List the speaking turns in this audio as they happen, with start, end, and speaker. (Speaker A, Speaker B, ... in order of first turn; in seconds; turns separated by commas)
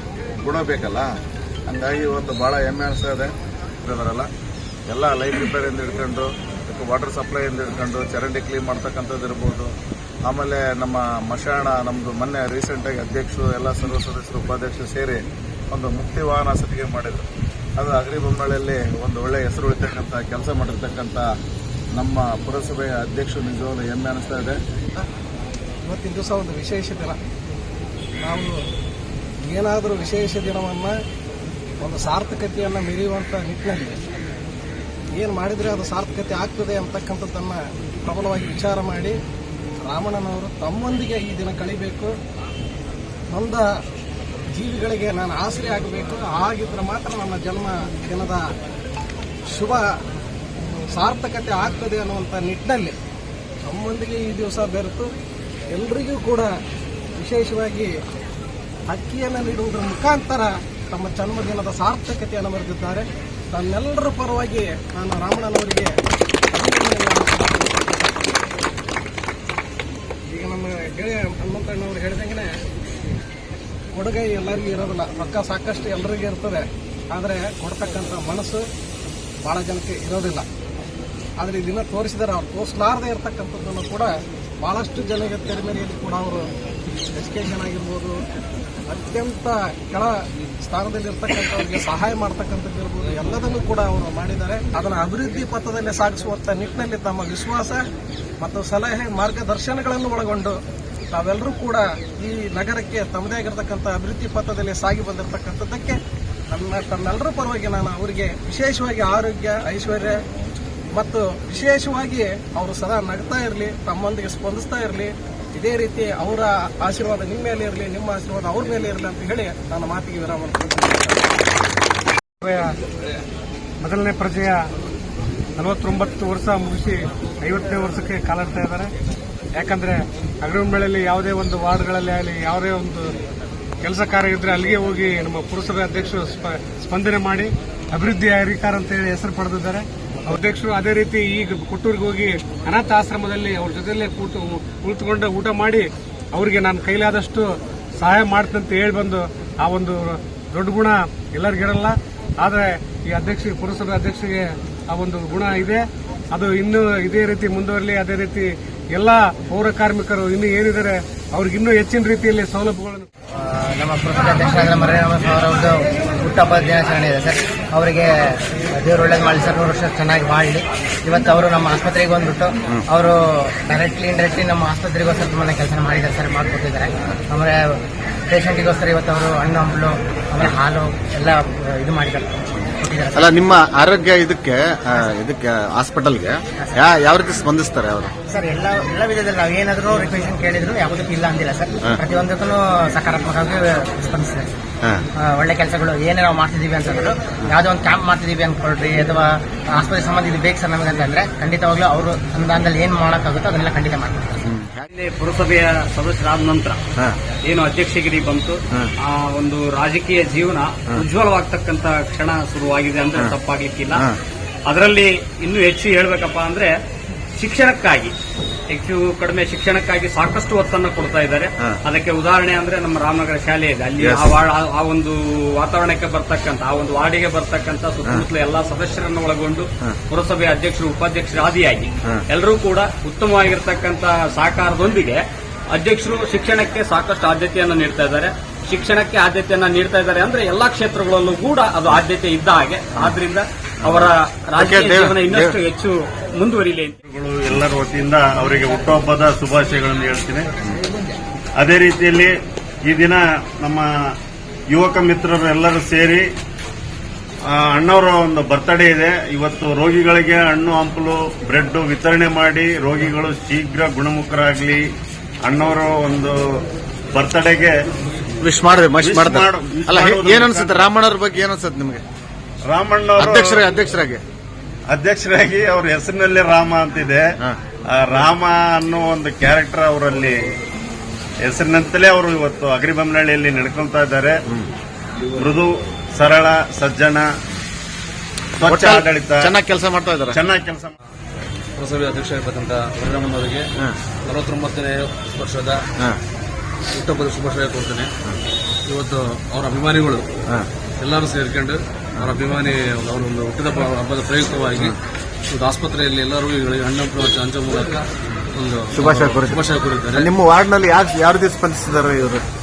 Speaker A: 0.4-1.1, Speaker A: 1.7-3.3, Speaker A: 3.8-4.3, Speaker A: 4.9-9.7, Speaker A: 10.2-17.2, Speaker A: 17.8-21.2, Speaker A: 22.0-24.6, Speaker B: 25.8-27.2, Speaker B: 28.2-28.5, Speaker B: 29.4-30.9, Speaker B: 31.8-34.0, Speaker B: 35.2-39.1, Speaker B: 39.8-42.1, Speaker B: 43.3-43.6, Speaker B: 44.5-48.4, Speaker B: 49.5-49.8, Speaker B: 50.9-52.9, Speaker B: 53.7-55.1, Speaker B: 55.7-56.5, Speaker B: 57.2-57.9, Speaker B: 58.9-65.9, Speaker B: 66.5-68.4, Speaker B: 70.3-72.5, Speaker B: 73.9-78.6, Speaker B: 79.4-80.5, Speaker B: 81.4-84.1, Speaker B: 84.6-86.4, Speaker B: 87.1-88.2, Speaker B: 88.9-90.1, Speaker B: 90.6-97.8, Speaker B: 98.4-100.6, Speaker B: 101.1-106.0, Speaker B: 106.5-110.2, Speaker B: 111.0-121.2, Speaker C: 122.4-122.8, Speaker C: 123.8-124.6, Speaker C: 125.6-128.9, Speaker C: 129.6-133.1, Speaker C: 133.8-163.1, Speaker D: 163.4-183.5, Speaker E: 183.1-188.1, Speaker D: 186.6-187.0, Speaker D: 188.3-194.5, Speaker D: 195.2-204.4, Speaker E: 204.4-204.8, Speaker F: 204.9-206.8, Speaker F: 207.4-214.0, Speaker F: 214.7-216.7, Speaker F: 217.4-218.1, Speaker F: 218.7-246.9, Speaker E: 224.0-224.3, Speaker E: 243.8-245.6, Speaker G: 247.1-250.4, Speaker G: 251.6-252.3, Speaker G: 252.8-253.9, Speaker G: 254.7-256.2, Speaker G: 257.5-264.8, Speaker G: 265.4-266.4, Speaker G: 267.1-267.7, Speaker E: 268.4-272.0, Speaker G: 269.0-270.9, Speaker G: 272.7-273.7, Speaker E: 273.2-274.2, Speaker G: 274.9-277.3, Speaker G: 277.9-280.4, Speaker G: 281.4-284.4, Speaker G: 285.3-287.3, Speaker G: 288.6-289.6, Speaker E: 288.6-290.4, Speaker G: 290.3-290.9, Speaker H: 291.8-293.7, Speaker H: 294.2-295.8, Speaker H: 296.9-298.1, Speaker H: 298.9-300.3, Speaker H: 301.0-304.9, Speaker H: 305.5-310.2, Speaker E: 308.9-309.6, Speaker E: 310.1-312.4